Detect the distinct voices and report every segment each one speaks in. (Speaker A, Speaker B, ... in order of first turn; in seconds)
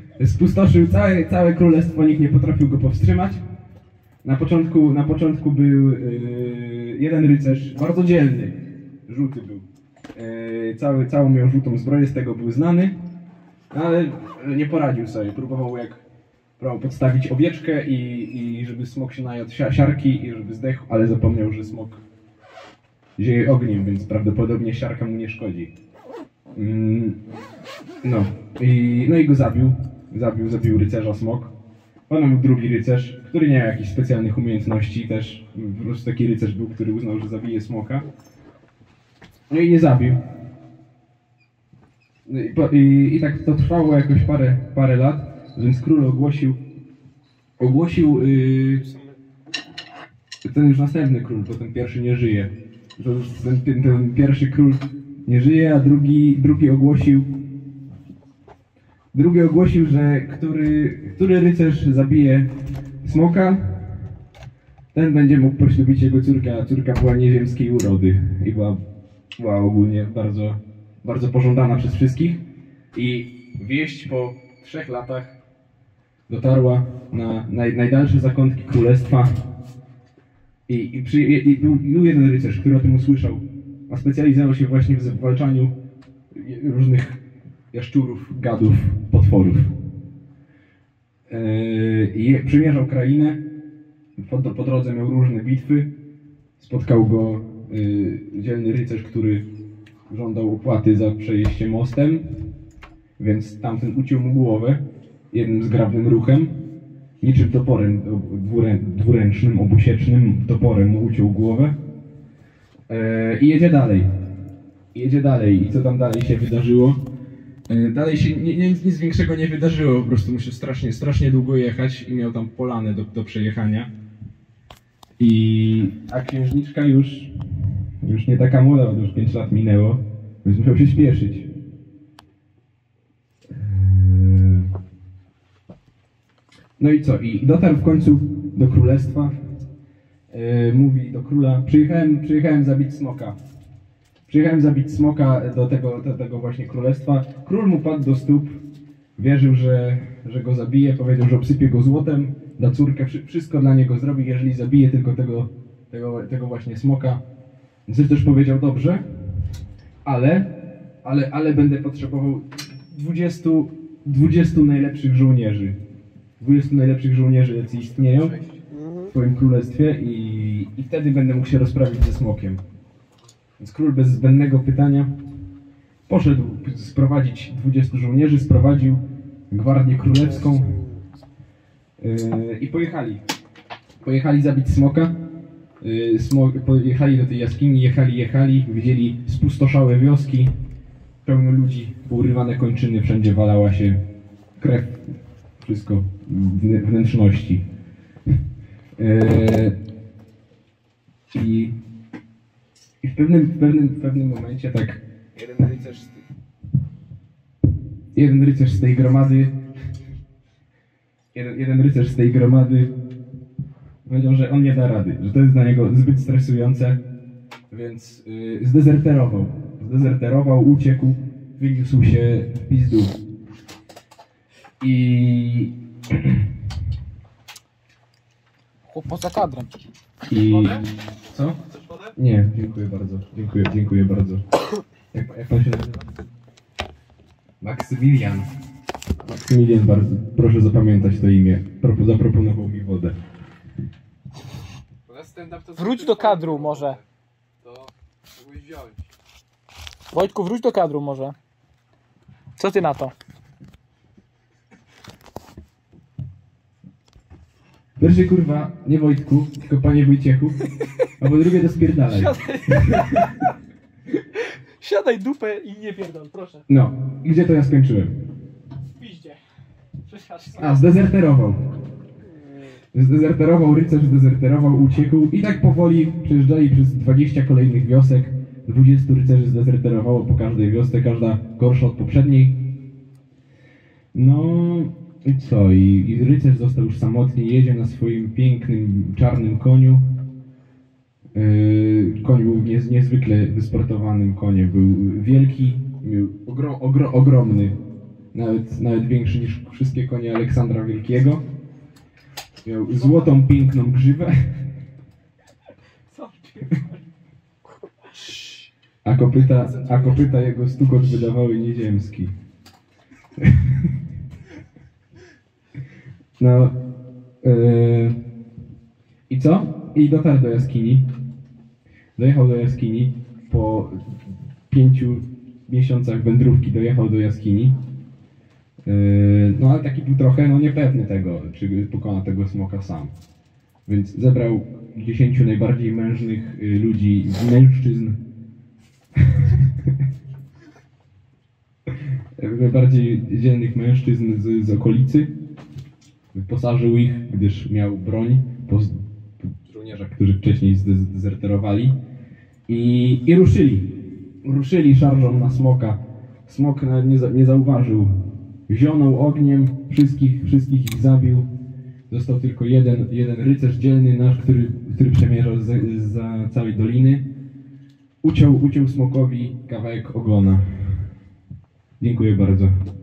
Speaker A: 0.2-3.4, 4.2-12.9, 13.7-16.0, 16.6-22.0, 23.2-25.7, 26.6-27.2, 28.0-31.5, 32.1-38.0, 39.5-40.2, 42.2-46.6, 47.6-48.8, 50.4-57.3, 59.1-62.5, 63.0-63.7, 64.9-68.8, 69.4-72.4, 72.9-75.3, 76.3-79.3, 80.7-85.7, 86.3-87.2, 87.7-89.7, 91.3-93.4, 94.2-95.9, 96.6-99.4, 100.1-102.3, 103.2-106.5, 107.2-111.8, 112.9-114.1, 114.9-117.0, 117.7-123.9, 125.2-131.5, 133.5-134.7, 136.8-139.3, 140.3-143.4, 144.3-148.6, 149.2-157.2, 157.9-159.0, 160.0-160.5, 161.0-165.8, 166.4-168.4, 169.1-172.6, 173.6-175.1, 176.1-180.9, 182.0-183.2, 184.0-185.1, 185.8-190.5, 191.2-194.0, 194.6-195.0, 195.6-197.6, 199.0-199.7, 201.3-201.8, 203.0-206.2, 208.1-209.6, 211.3-212.9, 214.1-217.0, 217.7-223.1, 224.8-226.5, 230.3-231.6, 232.1-234.4, 235.1-236.0, 237.6-238.5, 239.2-243.1, 245.1-245.6, 258.0-260.6, 261.2-263.2, 266.7-268.1, 270.6-271.6, 272.9-282.6, 284.1-290.0, 291.3-297.8, 298.3-301.4, 302.6-304.3, 309.0-312.3, 313.4-313.9, 316.4-316.8, 317.4-318.2, 319.3-321.1, 322.2-324.2, 324.7-327.7, 328.9-333.1, 333.9-338.2, 339.2-339.9, 342.4-345.3, 346.3-351.9, 352.7-353.9, 354.4-358.1, 358.7-361.5, 362.1-367.2, 368.2-370.6, 372.0-372.7
Speaker B: 48.8-49.2, 245.7-246.8, 247.6-249.0
Speaker C: 228.8-229.7, 230.4-230.8, 245.8-247.0, 250.1-251.3, 252.6-253.1, 262.1-263.5, 264.4-266.6, 269.0-269.4, 270.1-270.9, 302.9-303.4, 306.1-307.0, 308.1-308.7, 309.5-310.4